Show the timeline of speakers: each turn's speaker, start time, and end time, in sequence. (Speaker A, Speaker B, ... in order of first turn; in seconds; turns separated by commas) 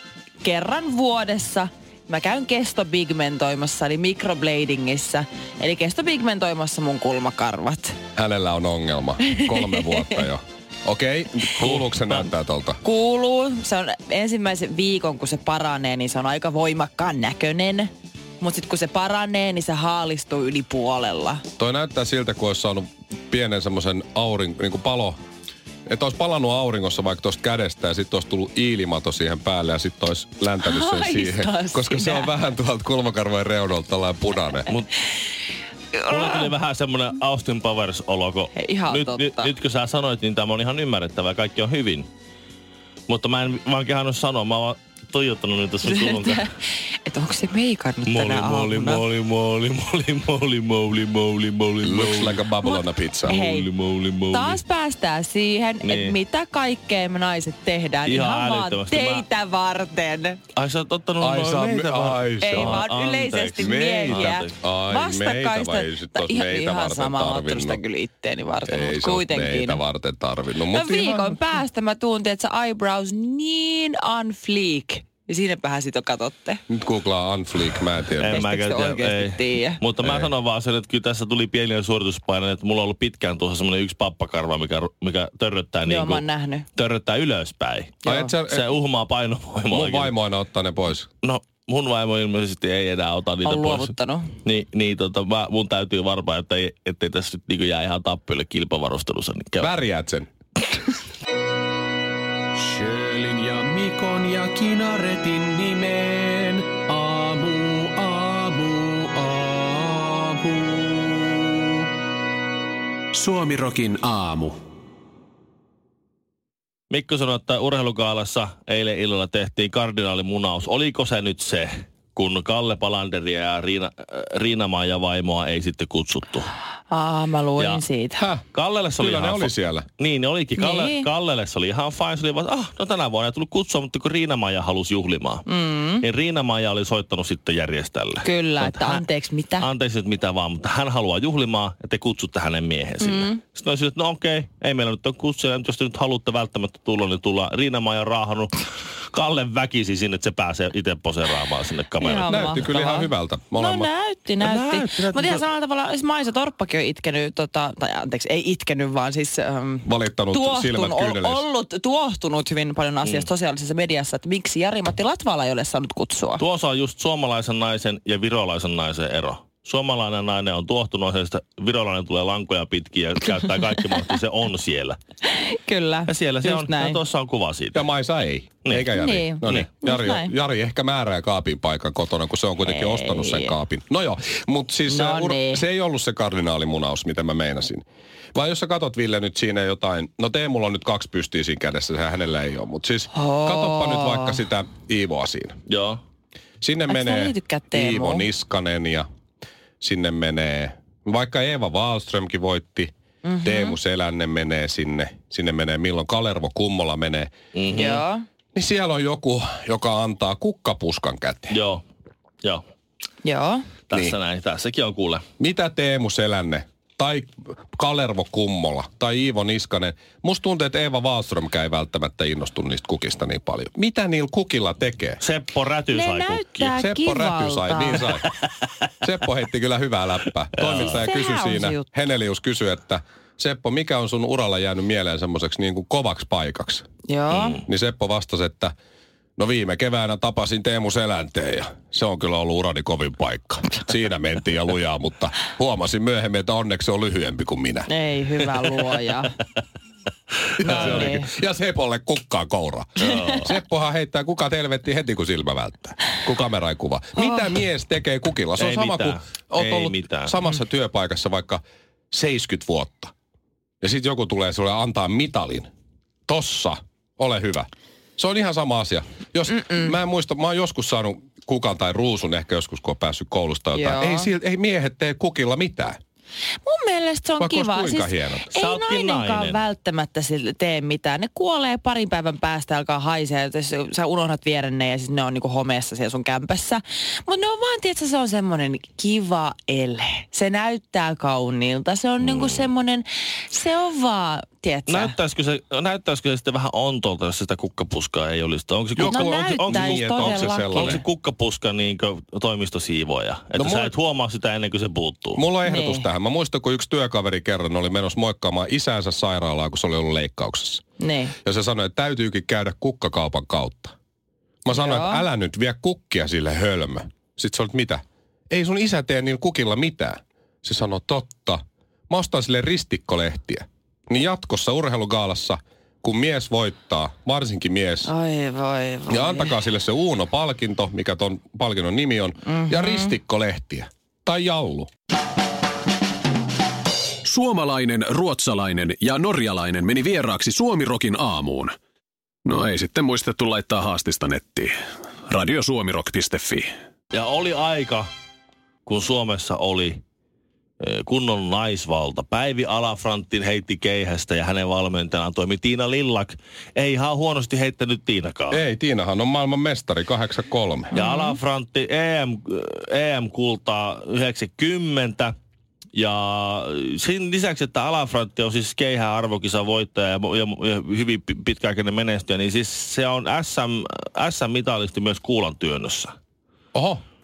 Speaker A: 0.4-8.0, Speaker B: 8.2-12.8, Speaker A: 9.3-9.8, Speaker C: 11.6-12.2, Speaker A: 12.8-21.4, Speaker B: 21.6-25.2, Speaker B: 25.9-34.7, Speaker A: 30.6-32.3, Speaker A: 35.9-36.5, Speaker C: 36.1-42.1, Speaker A: 38.5-39.5, Speaker C: 43.1-46.5, Speaker A: 45.8-49.0, Speaker C: 48.1-52.5, Speaker B: 51.8-53.4, Speaker A: 52.6-53.7, Speaker C: 53.3-54.6, Speaker A: 54.3-60.4, Speaker C: 55.8-56.2, Speaker C: 58.1-59.2, Speaker C: 60.6-64.6, Speaker B: 61.2-62.9, Speaker A: 62.4-69.8, Speaker B: 63.6-67.8, Speaker B: 68.7-71.4, Speaker A: 70.7-76.6, Speaker B: 76.7-78.5, Speaker C: 78.2-86.2, Speaker A: 78.3-79.8, Speaker B: 80.0-80.3, Speaker A: 85.8-86.7, Speaker C: 86.8-90.2, Speaker A: 88.0-88.3, Speaker B: 88.0-88.7, Speaker B: 89.7-91.1, Speaker C: 91.2-93.9, Speaker A: 93.4-94.3, Speaker C: 94.4-99.7, Speaker B: 99.6-100.3, Speaker D: 102.6-111.5, Speaker D: 113.1-114.6, Speaker C: 116.9-126.5, Speaker A: 126.9-128.2, Speaker C: 127.6-127.8, Speaker B: 128.2-128.4, Speaker C: 128.5-135.5, Speaker B: 129.0-129.9, Speaker A: 130.6-131.1, Speaker A: 135.5-136.0, Speaker C: 136.0-139.0, Speaker A: 138.2-139.7, Speaker C: 139.6-152.5, Speaker A: 143.0-143.4, Speaker A: 152.0-166.4, Speaker B: 152.3-153.9, Speaker C: 154.4-155.4, Speaker B: 159.8-161.4, Speaker C: 163.0-163.3, Speaker C: 166.4-175.0, Speaker A: 175.2-177.0, Speaker C: 176.1-177.9, Speaker B: 177.7-195.6, Speaker C: 178.7-179.7, Speaker A: 178.9-180.3, Speaker A: 182.6-183.6, Speaker A: 184.9-185.6, Speaker A: 193.1-194.4, Speaker C: 195.7-196.0, Speaker B: 196.6-199.1, Speaker A: 196.9-198.3, Speaker B: 199.8-202.9, Speaker A: 203.2-203.8, Speaker B: 203.4-207.3, Speaker C: 207.5-208.0, Speaker A: 207.8-208.3, Speaker B: 208.6-211.6, Speaker C: 211.5-211.8, Speaker A: 213.2-213.7, Speaker C: 213.9-215.2, Speaker B: 215.4-225.2, Speaker C: 225.2-226.7, Speaker A: 225.9-228.1, Speaker B: 226.7-228.3, Speaker B: 229.0-236.9, Speaker C: 230.6-230.9, Speaker A: 230.8-231.9, Speaker A: 237.1-237.6, Speaker C: 237.3-237.6, Speaker B: 237.7-238.7, Speaker B: 239.4-247.9, Speaker A: 247.9-249.3, Speaker B: 250.6-263.1, Speaker A: 250.6-251.3, Speaker C: 253.0-253.5, Speaker C: 258.6-260.3, Speaker B: 263.8-265.7, Speaker B: 266.3-276.0, Speaker A: 269.5-269.9, Speaker A: 273.7-274.3, Speaker A: 276.6-295.1, Speaker B: 277.4-278.5, Speaker C: 278.5-279.6, Speaker C: 292.2-292.7, Speaker C: 294.9-305.4, Speaker B: 299.0-301.0, Speaker A: 299.0-301.0, Speaker B: 303.6-303.9, Speaker B: 305.4-310.8, Speaker A: 305.6-306.1, Speaker A: 311.0-311.4, Speaker B: 311.4-313.9, Speaker B: 314.6-328.1, Speaker A: 314.7-315.2, Speaker A: 328.1-329.6, Speaker B: 329.1-334.9, Speaker A: 332.5-333.1, Speaker D: 337.2-341.8, Speaker D: 342.5-344.7, Speaker D: 345.3-346.7, Speaker C: 347.1-348.1, Speaker C: 348.9-350.0, Speaker C: 350.8-358.6, Speaker B: 358.5-360.9, Speaker A: 360.9-361.4, Speaker C: 360.9-365.3, Speaker C: 365.9-376.1, Speaker B: 376.7-377.0